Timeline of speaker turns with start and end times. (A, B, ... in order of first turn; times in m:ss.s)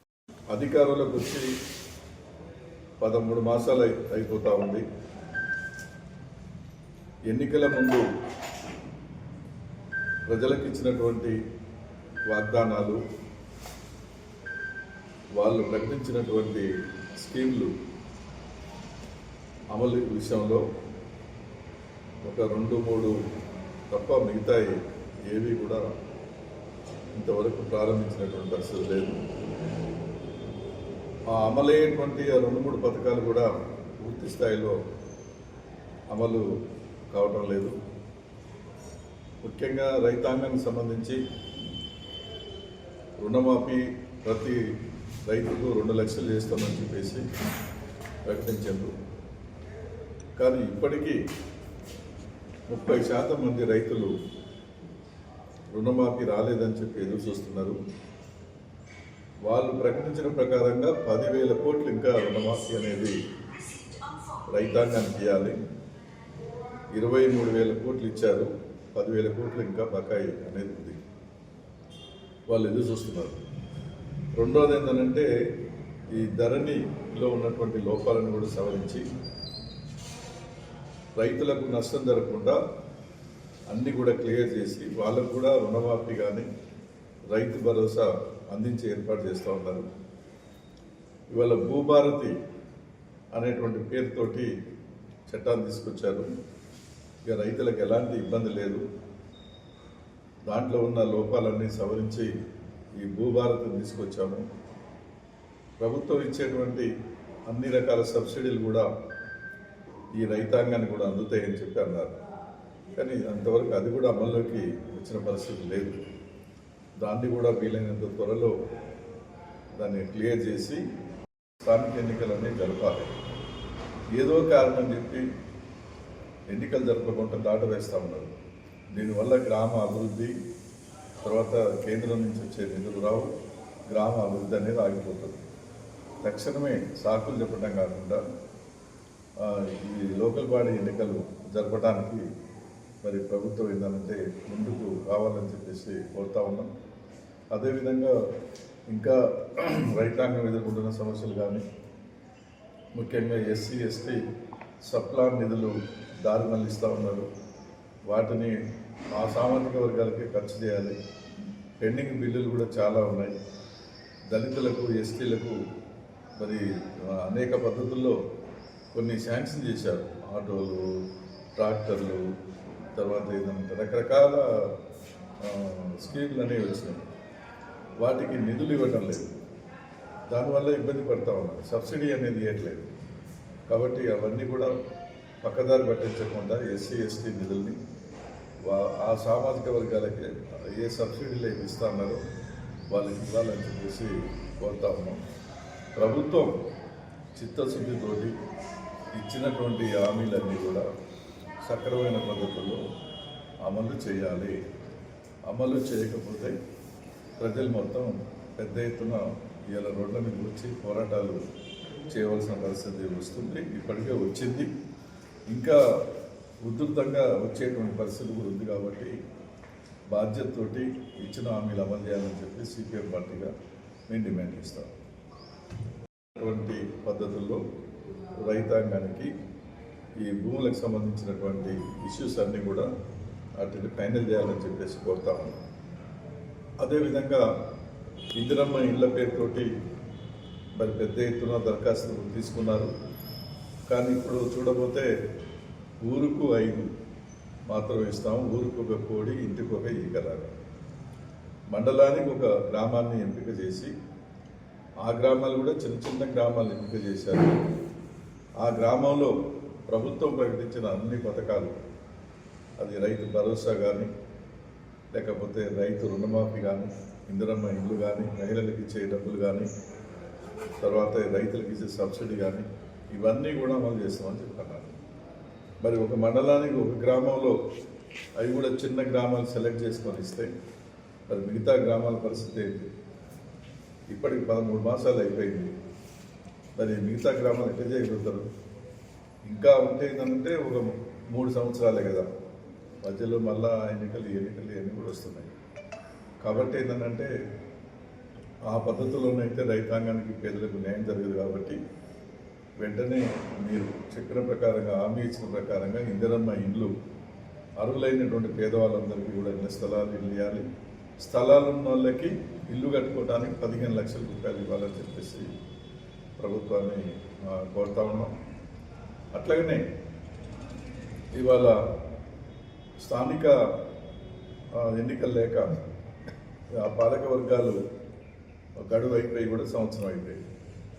0:00.5-0:01.4 A
0:03.0-0:04.8 A
0:07.3-0:08.0 A
0:10.3-0:11.4 A
0:12.3-0:13.0 A
0:15.4-0:16.7 A
0:17.2-0:17.7 A
0:19.7-0:20.6 A
0:22.2-0:23.2 A
0:23.9-0:24.8 A
0:25.3-0:25.9 A
0:27.2-0:29.2 A
0:31.3-0:33.5 A
0:34.0-0:34.8 A
0:36.1-0:36.4 A
0:37.1-0:37.8 A
0:39.4-0:41.2 A
0:43.2-0:44.6 A
0:45.3-0:47.2 A
0:48.2-0:48.9 A
0:50.4-0:51.2 A
0:52.7-0:54.1 A
0:55.7-0:57.8 A
0:59.4-1:03.2 A
1:04.5-1:05.6 A
1:07.0-1:11.0 A
1:12.5-1:13.4 A
1:14.4-1:15.3 A
1:16.2-1:19.0 A
1:21.2-1:22.6 A
1:23.7-1:26.5 A
1:27.3-1:29.8 A
1:31.3-1:32.3 A
1:33.3-1:34.5 A
1:35.3-1:36.3 A
1:37.3-1:38.8 A
1:40.5-1:42.3 A
1:43.0-1:44.4 A
1:45.8-1:46.9 A
1:47.5-1:48.9 A
1:50.2-1:52.1 A
1:53.0-1:56.0 A
1:57.0-1:58.5 A
1:59.8-2:00.8 A
2:01.6-2:03.1 A
2:04.1-2:05.2 A
2:06.5-2:08.3 A
2:08.9-2:10.3 A
2:11.2-2:13.3 A
2:13.9-2:15.4 A
2:16.2-2:18.2 A
2:19.4-2:22.2 A
2:23.0-2:26.7 A
2:27.5-2:28.2 A
2:28.9-2:31.6 A
2:33.0-2:34.2 A
2:34.9-2:37.3 A
2:38.1-2:38.6 A
2:39.2-2:41.0 A
2:41.8-2:43.3 A
2:44.3-2:45.6 A
2:46.4-2:48.2 A
2:48.9-2:51.0 A
2:51.6-2:52.2 A
2:53.0-2:54.7 A
2:55.4-2:57.0 A
2:58.0-2:59.3 A
3:00.3-3:02.9 A
3:03.7-3:04.7 A
3:05.4-3:07.8 A
3:08.6-3:12.2 A
3:12.9-3:15.2 A
3:16.0-3:16.5 A
3:17.3-3:18.3 A
3:19.2-3:20.9 A
3:21.6-3:22.8 A
3:23.6-3:24.6 A
3:25.5-3:26.5 A
3:27.4-3:31.4 A
3:32.1-3:34.7 A
3:35.5-3:35.8 A
3:36.6-3:39.1 A
3:40.1-3:43.5 A
3:44.1-3:44.9 A
3:46.4-3:47.6 A
3:48.4-3:49.3 A
3:50.2-3:52.9 A
3:53.6-3:55.6 A
3:56.8-3:57.4 A
3:58.4-3:59.7 A
4:00.8-4:02.9 A
4:03.9-4:05.1 A
4:06.0-4:06.9 A
4:07.7-4:10.5 A
4:11.7-4:13.9 A
4:15.0-4:17.6 A
4:18.6-4:19.3 A
4:19.9-4:21.7 A
4:22.8-4:24.1 A
4:25.1-4:29.7 A
4:30.8-4:34.9 A
4:35.8-4:37.6 A
4:38.4-4:40.5 A
4:41.3-4:42.9 A
4:44.1-4:45.7 A
4:46.8-4:48.5 A
4:49.5-4:52.3 A
4:53.0-4:55.5 A
4:56.4-4:57.3 A
4:58.7-5:01.8 A
5:02.8-5:06.9 A
5:07.8-5:10.6 A
5:11.2-5:15.4 A
5:16.4-5:18.3 A
5:19.3-5:19.8 A
5:21.4-5:21.8 A
5:23.0-5:23.5 A
5:24.7-5:25.8 A
5:26.7-5:27.8 A
5:28.8-5:30.4 A